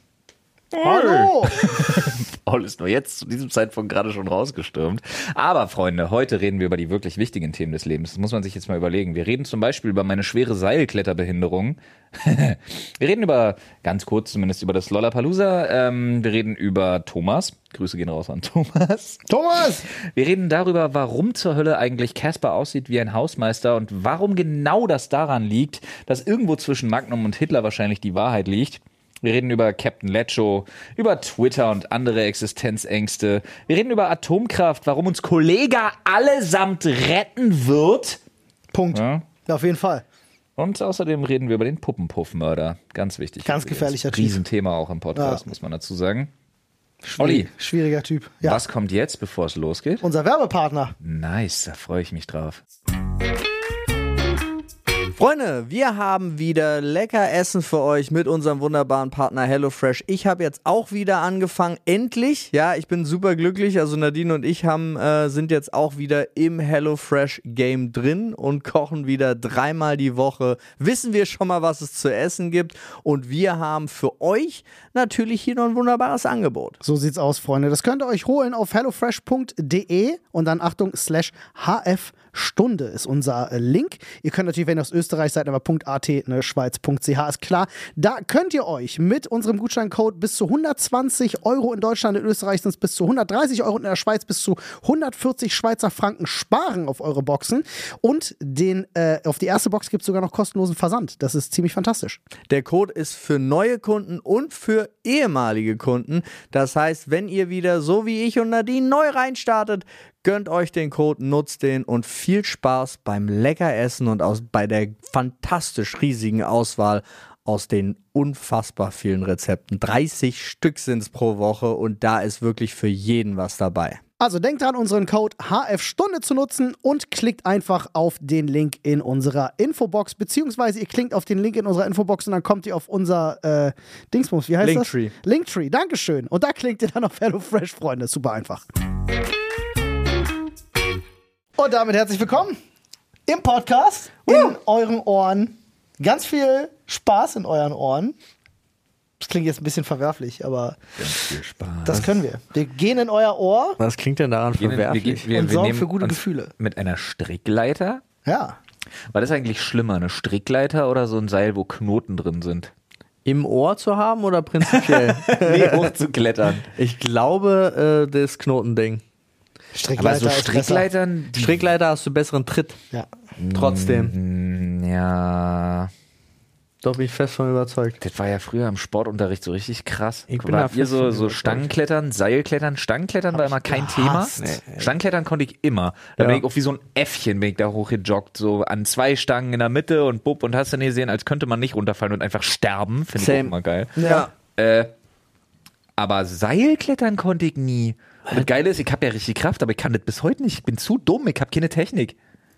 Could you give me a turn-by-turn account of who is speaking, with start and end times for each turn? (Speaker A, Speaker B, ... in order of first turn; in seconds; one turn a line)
Speaker A: 0.7-19.2
Speaker B: 0.8-1.6
Speaker B: 19.3-19.9
Speaker A: 20.1-38.2
Speaker B: 38.7-40.0
Speaker A: 38.9-39.2
Speaker A: 40.6-46.3
Speaker B: 43.5-44.4
Speaker B: 45.1-45.4
Speaker B: 47.0-48.6
Speaker A: 47.2-47.5
Speaker A: 48.4-50.0
Speaker B: 50.0-51.0
Speaker A: 51.0-52.6
Speaker C: 55.1-76.8
Speaker B: 76.8-102.2
Speaker C: 102.5-124.0
Speaker B: 124.2-138.6
Speaker C: 134.6-135.1
Speaker B: 141.6-142.6
Speaker B: 143.3-148.2
Speaker C: 144.3-144.5
Speaker B: 149.2-150.8
Speaker A: 151.0-152.2
Speaker B: 151.9-153.8
Speaker C: 153.8-155.3
Speaker A: 154.6-158.0
Speaker B: 155.3-156.5
Speaker B: 158.3-158.6
Speaker A: 159.1-162.7
Speaker C: 163.2-165.9
Speaker A: 164.7-166.7
Speaker C: 166.8-169.0
Speaker B: 169.8-170.9
Speaker A: 170.0-171.6
Speaker C: 171.3-172.8
Speaker A: 173.4-175.9
Speaker C: 173.5-174.1
Speaker C: 176.8-178.0
Speaker A: 178.0-194.9
Speaker C: 180.3-181.7
Speaker B: 183.3-184.6
Speaker C: 184.4-184.9
Speaker C: 186.2-186.4
Speaker C: 193.2-194.3
Speaker B: 194.0-194.3
Speaker A: 196.0-202.2